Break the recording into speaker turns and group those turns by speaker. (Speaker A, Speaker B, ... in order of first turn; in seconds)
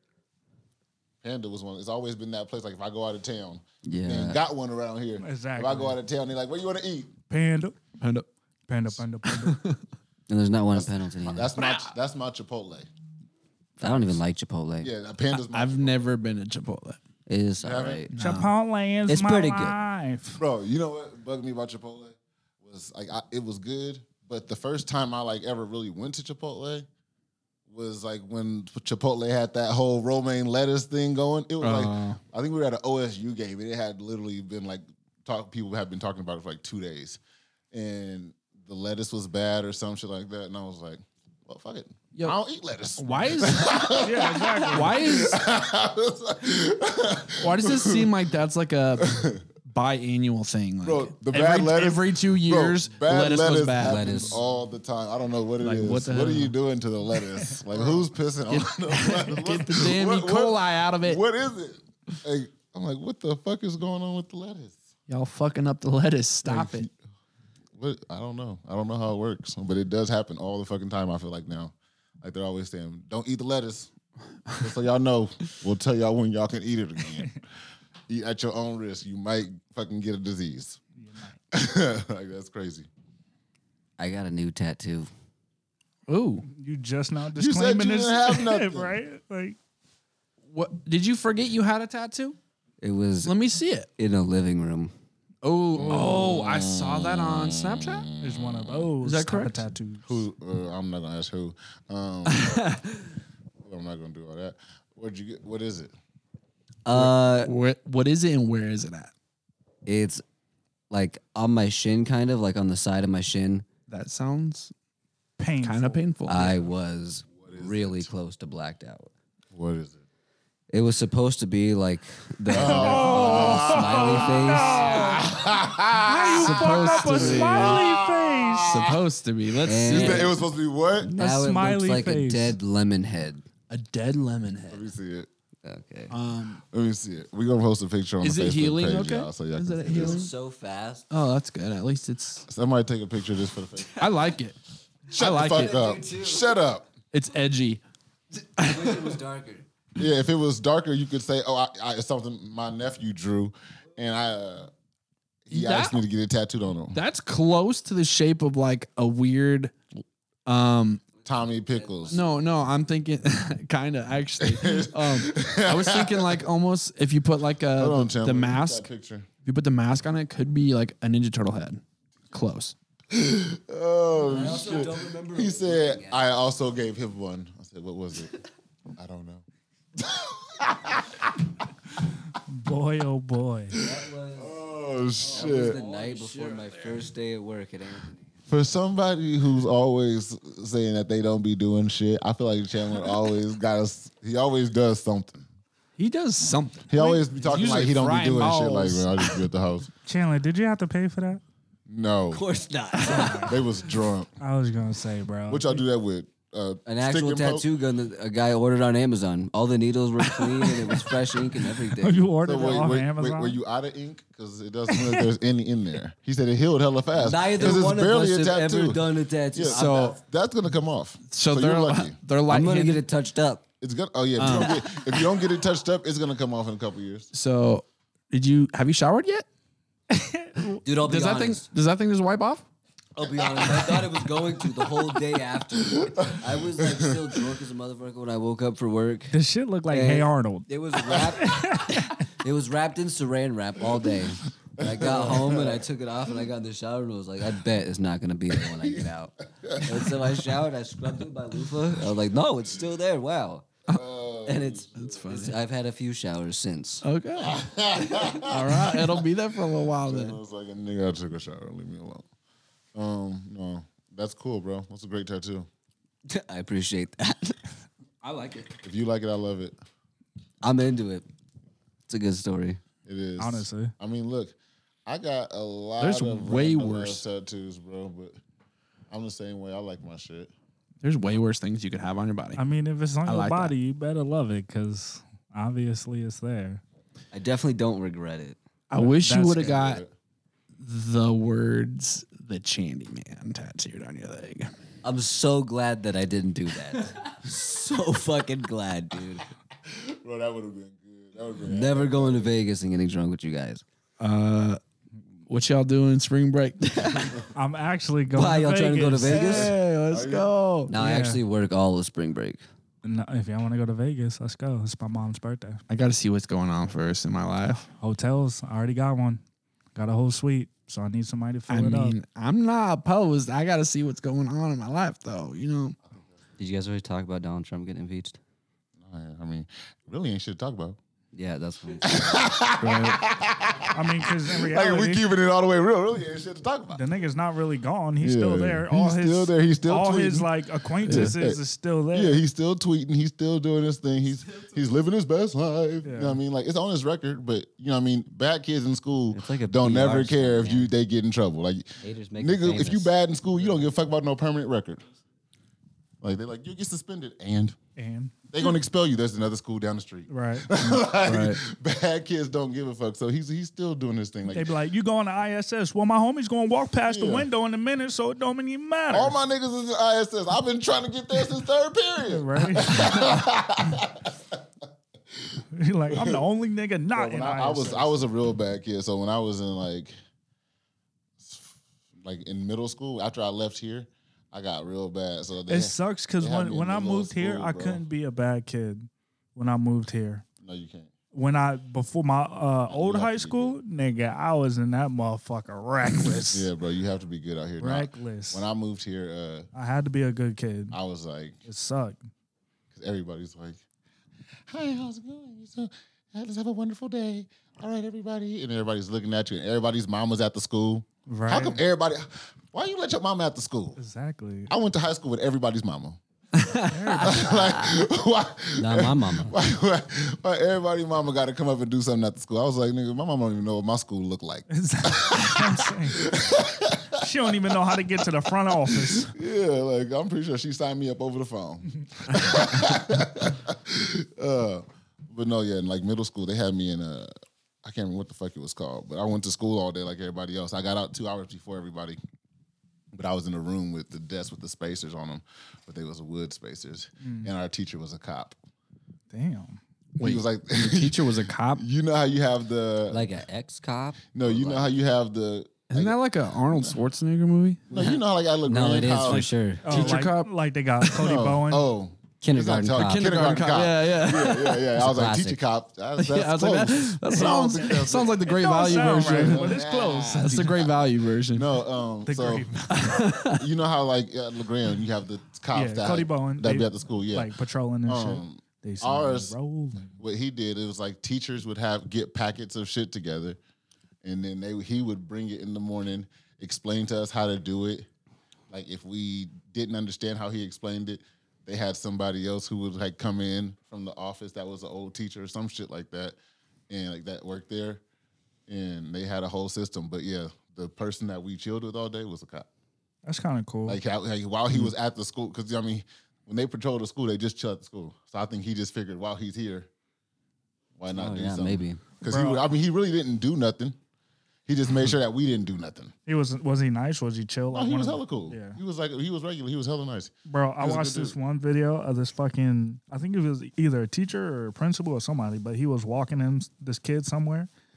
Speaker A: 1.2-7.1, 10.7-12.9, 14.8-16.1, 17.6-18.1, 20.4-26.9, 27.7-37.2, 37.7-48.1, 49.0-49.4, 50.8-64.8, 66.4-66.9, 67.7-73.9, 74.6-77.4, 78.1-80.8, 81.5-82.9, 87.3-88.9, 95.7-98.9, 100.0-102.6, 103.6-105.9, 117.3-118.1, 119.5-120.0, 122.5-129.0, 129.8-131.1, 134.7-135.3, 136.7-140.2, 142.5-144.1, 145.1-146.9, 150.0-154.7, 155.4-157.0, 161.2-162.2, 164.4-166.4, 167.8-169.3, 173.1-178.4, 178.9-179.4, 180.0-181.4, 183.7-185.8, 188.5-195.5, 196.9-199.9, 201.9-202.4, 203.4-204.3, 205.5-207.7, 212.4-219.0, 219.5-222.2, 223.8-227.3, 233.2-234.1, 235.8-237.4, 244.8-245.8, 248.7-249.0, 249.6-250.2, 253.9-255.2, 257.4-259.2, 260.0-262.2, 262.9-265.7, 268.8-269.8, 273.0-278.4, 279.1-280.5, 289.4-290.1, 299.8-302.5, 310.1-310.5, 329.0-331.0, 332.0-337.0, 338.2-340.5, 341.0-341.6, 342.1-355.0, 356.2-357.8, 358.5-364.7, 367.1-367.5, 369.1-374.6, 375.4-376.4, 377.1-380.1, 381.4-388.0, 390.6-391.1, 392.9-393.8, 396.5-399.7, 400.9-401.6, 402.9-403.8, 404.7-414.0, 414.7-416.2, 417.2-427.5, 428.8-437.3, 437.8-442.2, 443.1-448.6, 450.2-453.4, 454.3-457.0, 457.9-459.4, 461.1-472.7, 473.5-477.5, 478.1-479.5, 480.1-483.6, 484.2-488.1, 488.7-496.4, 496.9-498.0, 498.7-502.7, 503.9-509.9, 511.0-514.0, 514.7-516.1, 517.7-521.3
Speaker B: 3.8-4.4, 10.3-11.5, 13.8-14.9, 17.3-18.1, 19.1-19.8, 53.8-54.4, 84.0-85.1, 92.8-93.3, 94.0-94.9, 106.8-107.5, 109.8-110.2, 110.9-113.7, 116.2-119.1, 120.7-125.2, 129.6-130.4, 131.0-133.4, 135.6-136.1, 139.8-141.1, 145.3-146.6, 148.6-149.7, 161.7-162.3, 174.2-176.2, 183.7-184.6, 185.2-188.3, 202.3-203.7, 206.8-212.2, 217.2-220.2, 222.5-223.6, 230.8-231.7, 233.2-239.3, 239.9-253.7, 254.4-257.0, 258.1-258.4, 266.3-267.7, 268.2-268.6, 270.6-271.2, 272.1-272.8, 287.3-288.6, 295.0-299.4, 301.6-303.8, 307.0-307.3, 308.3-309.7, 310.9-312.6, 326.6-328.4, 331.3-332.2, 349.3-350.9, 352.0-353.1, 418.8-419.5, 453.1-454.9, 458.6-460.1, 462.4-463.3, 464.9-465.6, 511.1-512.0
Speaker C: 5.2-6.0, 7.3-7.8, 8.7-9.6, 18.2-20.4, 44.0-45.0, 81.0-81.4, 86.5-89.6, 98.2-100.2, 115.4-116.0, 122.5-125.4, 126.1-128.7, 131.1-132.6, 182.4-183.8, 200.0-201.4, 203.0-203.6, 204.4-205.8, 210.6-211.0, 212.0-213.6, 214.9-215.3, 230.1-230.8, 239.3-242.2, 273.4-273.9, 282.6-286.8, 289.0-289.7, 307.5-309.7, 310.9-311.4, 313.0-315.8, 318.0-319.4, 319.9-322.1, 333.9-335.3, 336.9-342.4, 346.0-346.4, 357.9-358.7, 360.3-361.0, 364.5-369.3, 372.3-373.4, 375.7-378.2, 385.7-390.4, 391.3-396.7, 397.8-398.6, 399.7-401.0, 401.6-402.2, 411.3-411.8, 414.0-414.7, 416.9-417.6, 424.7-426.3, 427.1-429.3, 447.2-447.5, 449.3-449.8, 459.8-461.9, 467.3-470.6, 472.3-473.1, 475.7-480.1, 503.2-504.0, 512.2-512.6, 516.2-518.8, 520.5-527.7
Speaker D: 8.0-8.3, 9.2-9.8, 11.6-11.9, 15.3-17.0, 18.1-18.5, 31.6-32.2, 43.0-44.0, 44.7-45.4, 47.4-54.3, 55.6-56.5, 58.5-61.2, 65.1-66.9, 86.1-86.5, 90.5-92.4, 93.2-93.9, 95.4-98.1, 99.0-99.7, 102.3-103.0, 106.9-109.1, 113.9-114.7, 115.6-116.6, 126.0-127.8, 128.7-130.4, 133.7-134.8, 136.1-136.6, 138.2-140.3, 141.1-142.4, 143.9-144.6, 145.1-145.8, 147.1-147.8, 148.6-149.2, 155.5-156.0, 156.9-159.8, 160.4-161.0, 162.1-168.9, 169.4-172.7, 185.3-187.0, 196.0-199.4, 219.7-220.2, 221.3-223.0, 224.4-225.2, 227.3-229.5, 231.0-232.7, 254.9-255.6, 257.0-257.6, 258.4-260.4, 268.2-268.6, 276.0-277.2, 281.0-282.6, 283.2-283.7, 288.9-290.0, 290.8-294.7, 304.2-304.8, 305.5-307.4, 309.3-310.9, 315.9-317.9, 321.7-326.0, 332.8-333.2, 341.0-341.4, 361.2-361.6, 416.5-417.3, 432.4-432.8, 450.2-451.9, 455.9-458.2, 459.3-461.3, 463.0-464.9, 466.2-471.7, 472.9-473.6